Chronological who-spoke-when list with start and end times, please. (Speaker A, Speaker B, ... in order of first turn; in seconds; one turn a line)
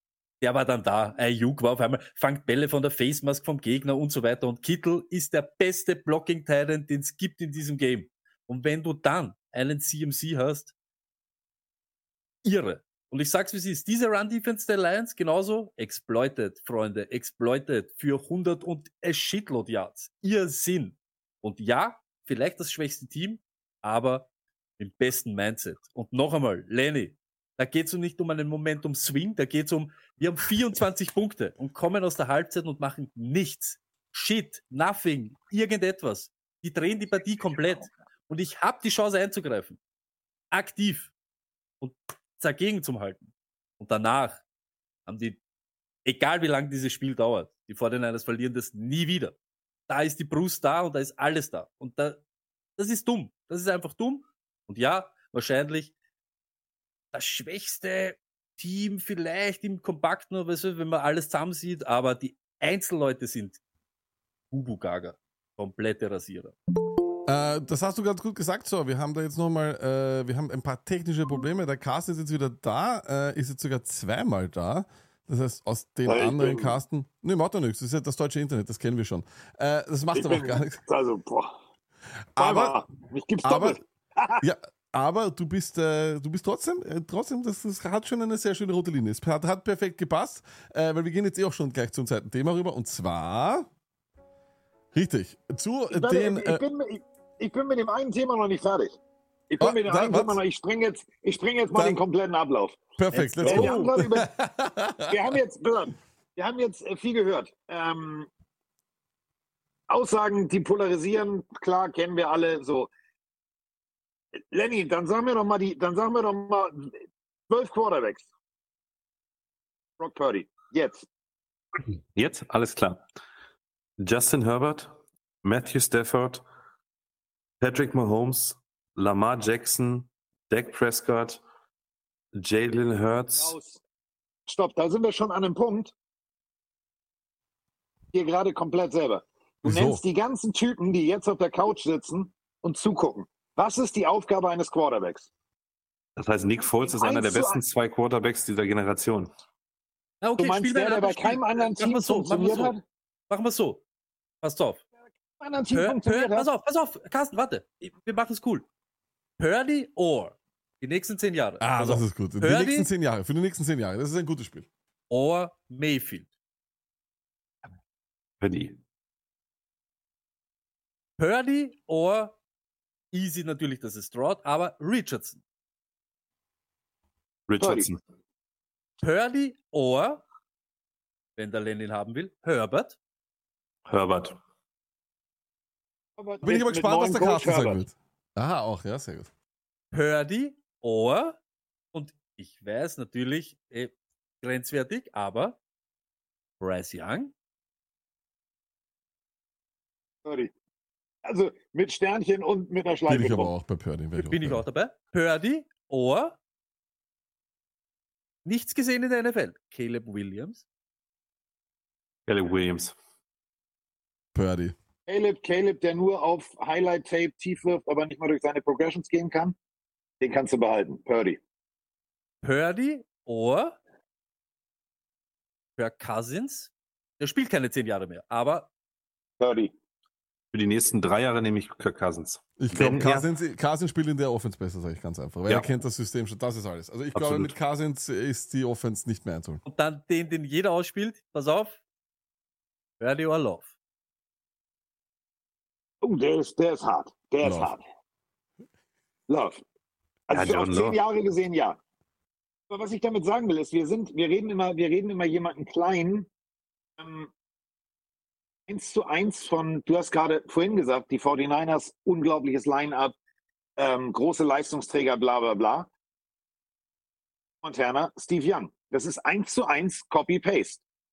Speaker A: 0.4-10.7
Speaker A: 12.4-24.3
Speaker A: 24.8-39.8
Speaker A: 40.5-41.1
Speaker A: 41.8-44.4
Speaker A: 45.0-45.4
Speaker A: 46.0-49.3
Speaker A: 49.9-52.2
Speaker A: 52.8-55.9
Speaker A: 57.1-63.6
Speaker A: 64.5-66.5
Speaker B: 67.3-80.8
Speaker C: 76.1-76.8
Speaker C: 80.1-81.5
Speaker B: 82.3-82.7
Speaker C: 82.4-84.4
Speaker B: 83.4-83.8
Speaker B: 84.4-93.7
Speaker B: 94.9-96.6
Speaker C: 95.9-99.0
Speaker C: 99.5-102.8
Speaker B: 99.6-100.4
Speaker B: 103.0-105.3
Speaker A: 103.1-103.8
Speaker C: 103.4-104.3
Speaker C: 105.1-108.3
Speaker C: 109.9-112.9
Speaker C: 114.5-116.9
Speaker C: 117.5-118.2
Speaker C: 120.0-121.0
Speaker D: 122.1-123.0
Speaker D: 124.0-124.9
Speaker D: 125.4-126.4
Speaker D: 127.6-131.4
Speaker D: 132.3-133.5
Speaker C: 133.3-133.8
Speaker C: 134.5-135.9
Speaker C: 138.1-145.3
Speaker B: 139.6-140.0
Speaker D: 146.2-149.3
Speaker C: 146.8-147.6
Speaker A: 150.2-152.7
Speaker C: 150.4-152.8
Speaker A: 153.3-153.8
Speaker A: 154.4-154.8
Speaker C: 155.4-156.5
Speaker A: 155.7-158.6
Speaker A: 159.4-162.9
Speaker B: 161.6-164.7
Speaker A: 165.1-166.3
Speaker D: 168.4-168.8
Speaker A: 171.2-172.3
Speaker A: 173.1-175.4
Speaker D: 177.5-178.0
Speaker C: 177.6-177.9
Speaker A: 179.0-180.2
Speaker A: 181.3-183.0
Speaker D: 183.9-184.4
Speaker C: 186.2-187.8
Speaker B: 186.4-189.3
Speaker A: 189.9-191.4
Speaker A: 191.9-195.6
Speaker A: 196.6-197.3
Speaker C: 200.2-200.5
Speaker C: 201.2-203.5
Speaker B: 203.1-204.6
Speaker A: 204.2-206.4
Speaker A: 208.4-210.6
Speaker D: 212.3-212.9
Speaker B: 214.3-214.7
Speaker C: 215.1-219.6
Speaker C: 220.2-221.4
Speaker A: 222.4-223.8
Speaker A: 225.8-228.7
Speaker C: 229.4-229.7
Speaker D: 230.5-233.2
Speaker B: 232.6-239.6
Speaker D: 237.1-237.5
Speaker A: 239.6-241.8
Speaker A: 243.0-243.7
Speaker C: 246.0-247.8
Speaker B: 247.4-247.7
Speaker C: 249.3-249.6
Speaker C: 250.3-251.8
Speaker D: 250.3-251.0
Speaker C: 252.7-256.3
Speaker C: 257.0-257.3
Speaker C: 258.7-263.1
Speaker C: 263.8-265.9
Speaker C: 267.6-270.8